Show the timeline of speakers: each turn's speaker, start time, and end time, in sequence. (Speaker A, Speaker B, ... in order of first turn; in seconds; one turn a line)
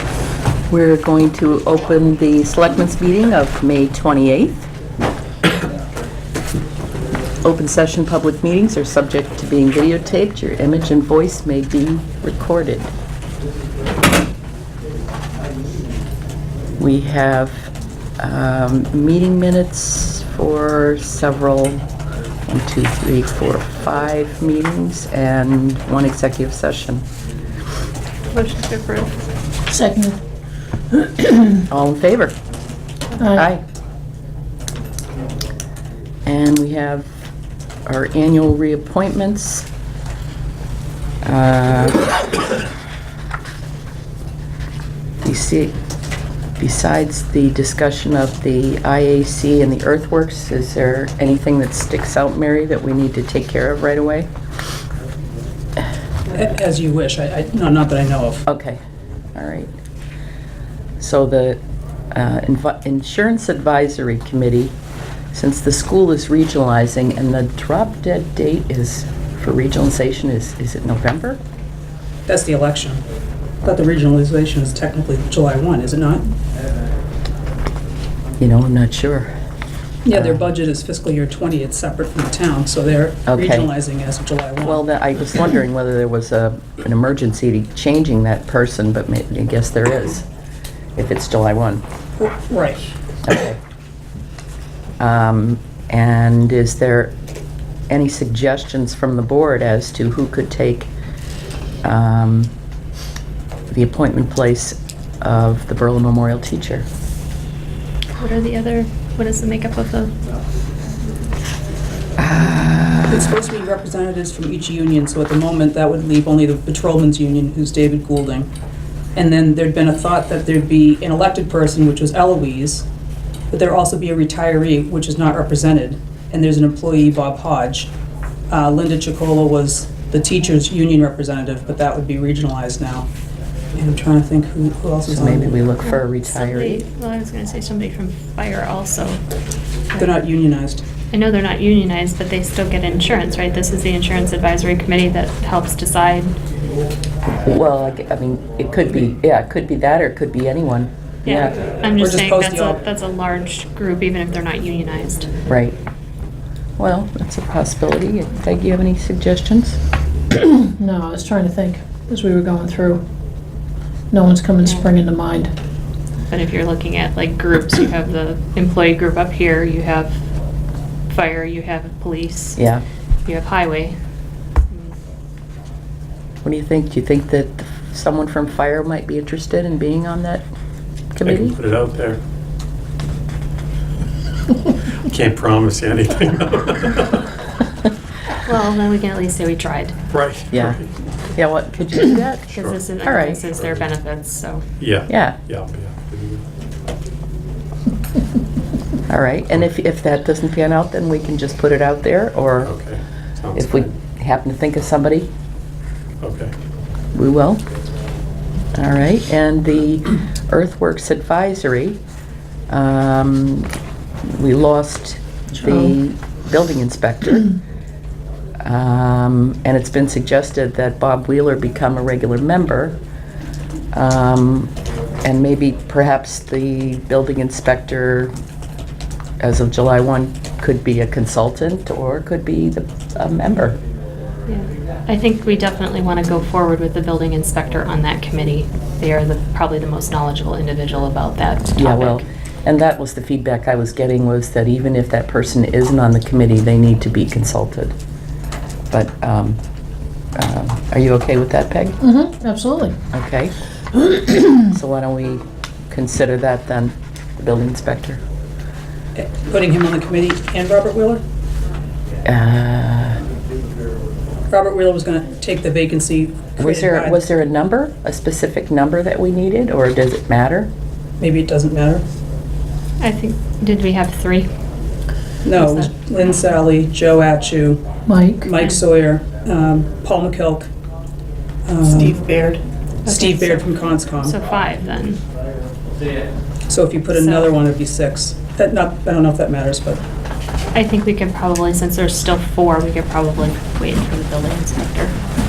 Speaker A: 0.7-4.7
Speaker A: 7.4-12.9
Speaker A: 16.8-21.8
Speaker A: 22.5-27.0
Speaker B: 28.3-29.1
Speaker C: 29.7-30.2
Speaker C: 30.9-31.6
Speaker A: 31.7-32.4
Speaker C: 33.2-33.5
Speaker A: 33.3-33.6
Speaker A: 36.2-37.1
Speaker A: 37.9-39.7
Speaker A: 41.2-42.1
Speaker A: 45.2-45.7
Speaker A: 46.6-54.3
Speaker D: 56.3-58.4
Speaker A: 58.5-58.8
Speaker A: 59.3-59.7
Speaker A: 61.0-61.6
Speaker A: 62.1-64.7
Speaker A: 65.3-71.4
Speaker D: 72.3-73.0
Speaker D: 73.6-76.2
Speaker A: 78.4-79.3
Speaker D: 80.0-84.8
Speaker A: 80.1-80.4
Speaker A: 83.3-83.7
Speaker A: 84.6-90.2
Speaker A: 91.0-91.8
Speaker D: 92.2-92.9
Speaker A: 93.2-93.6
Speaker A: 95.0-97.1
Speaker A: 97.9-100.9
Speaker A: 101.8-102.5
Speaker A: 103.7-106.8
Speaker B: 108.2-110.1
Speaker A: 112.2-113.4
Speaker D: 113.1-118.5
Speaker D: 119.1-122.8
Speaker D: 123.5-127.9
Speaker D: 128.5-133.1
Speaker D: 133.7-135.6
Speaker A: 135.1-136.8
Speaker B: 135.8-139.2
Speaker B: 139.9-140.2
Speaker D: 140.0-140.8
Speaker B: 141.1-146.3
Speaker A: 147.4-151.5
Speaker B: 151.2-155.3
Speaker D: 152.0-152.8
Speaker A: 155.5-155.8
Speaker A: 156.8-159.8
Speaker C: 160.6-163.0
Speaker C: 164.1-165.5
Speaker B: 164.6-164.9
Speaker B: 166.3-170.2
Speaker B: 171.1-172.6
Speaker A: 172.6-172.8
Speaker B: 173.2-173.9
Speaker B: 174.7-174.9
Speaker A: 176.4-180.4
Speaker A: 181.1-181.6
Speaker E: 181.2-182.2
Speaker E: 185.0-187.3
Speaker B: 188.4-189.9
Speaker E: 190.1-190.9
Speaker A: 190.5-190.8
Speaker A: 191.3-192.5
Speaker B: 192.5-194.7
Speaker E: 192.5-192.8
Speaker A: 193.0-193.4
Speaker E: 193.5-193.8
Speaker E: 194.8-196.4
Speaker A: 195.1-195.4
Speaker A: 199.1-202.7
Speaker E: 202.6-203.9
Speaker A: 203.5-205.3
Speaker E: 206.2-206.5
Speaker A: 207.1-207.6
Speaker A: 208.7-212.0
Speaker A: 212.7-213.7
Speaker A: 214.3-217.5
Speaker A: 218.6-223.0
Speaker A: 223.9-224.7
Speaker A: 225.2-228.3
Speaker A: 229.4-233.8
Speaker B: 234.5-242.2
Speaker A: 241.8-247.9
Speaker A: 248.9-249.6
Speaker A: 250.3-252.0
Speaker C: 252.0-253.0
Speaker A: 253.1-253.5
Speaker A: 254.5-258.2
Speaker D: 259.1-261.2
Speaker A: 262.2-263.2
Speaker D: 264.5-267.2
Speaker A: 266.6-270.7
Speaker D: 271.2-272.0
Speaker B: 273.0-274.5
Speaker D: 275.4-277.8
Speaker B: 275.5-275.9
Speaker C: 278.1-278.5
Speaker D: 278.4-280.7
Speaker D: 281.6-282.4
Speaker B: 283.0-285.2
Speaker D: 283.1-284.3
Speaker D: 286.7-290.0
Speaker B: 287.1-287.6
Speaker B: 290.7-295.1